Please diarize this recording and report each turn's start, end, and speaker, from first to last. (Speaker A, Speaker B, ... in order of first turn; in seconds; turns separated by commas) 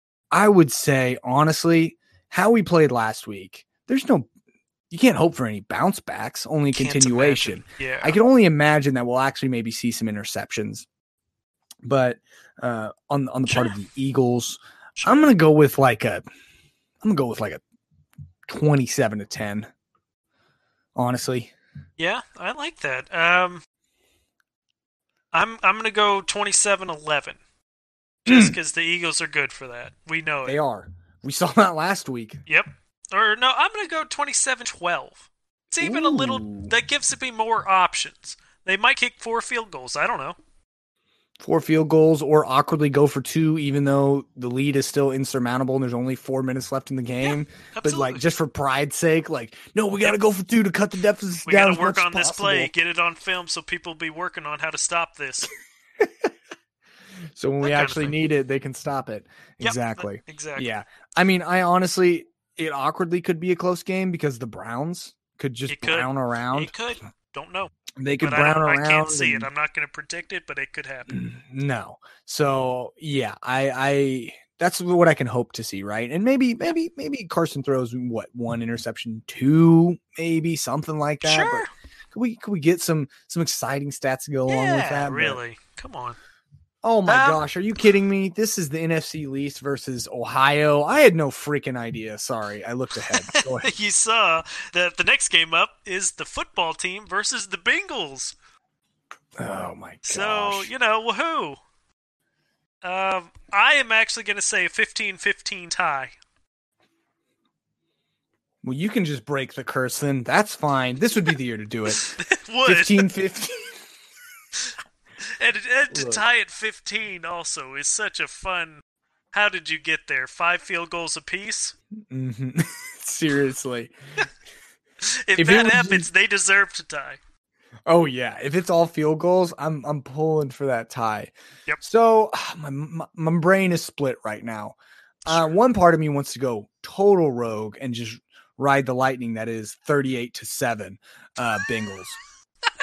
Speaker A: 0.3-4.3, Speaker A: 4.9-10.9, Speaker B: 6.8-8.2, Speaker A: 11.8-16.2, Speaker B: 15.0-15.3, Speaker A: 17.0-17.6, Speaker A: 18.5-19.7, Speaker A: 20.9-21.5, Speaker B: 22.0-23.6, Speaker B: 25.3-27.4, Speaker A: 28.2-28.6, Speaker B: 28.2-30.6, Speaker A: 30.4-32.4, Speaker B: 32.5-40.4, Speaker A: 35.8-36.7, Speaker A: 41.4-52.7, Speaker B: 47.2-48.2, Speaker B: 51.5-55.5, Speaker A: 56.0-56.3, Speaker A: 57.4-66.7, Speaker B: 57.6-58.2, Speaker B: 59.6-60.7, Speaker B: 65.7-71.1, Speaker A: 68.0-69.5, Speaker A: 71.1-85.4, Speaker B: 81.2-81.7, Speaker B: 84.5-86.2, Speaker A: 86.8-93.7, Speaker B: 87.0-87.4, Speaker B: 93.1-98.3, Speaker A: 99.4-100.7, Speaker B: 100.0-101.6, Speaker B: 102.8-106.2, Speaker A: 108.6-112.1, Speaker B: 112.0-113.0, Speaker A: 112.6-113.8, Speaker B: 114.6-121.7, Speaker A: 115.9-116.2, Speaker A: 122.1-123.9, Speaker B: 125.0-127.2, Speaker A: 125.3-126.1, Speaker A: 127.9-142.2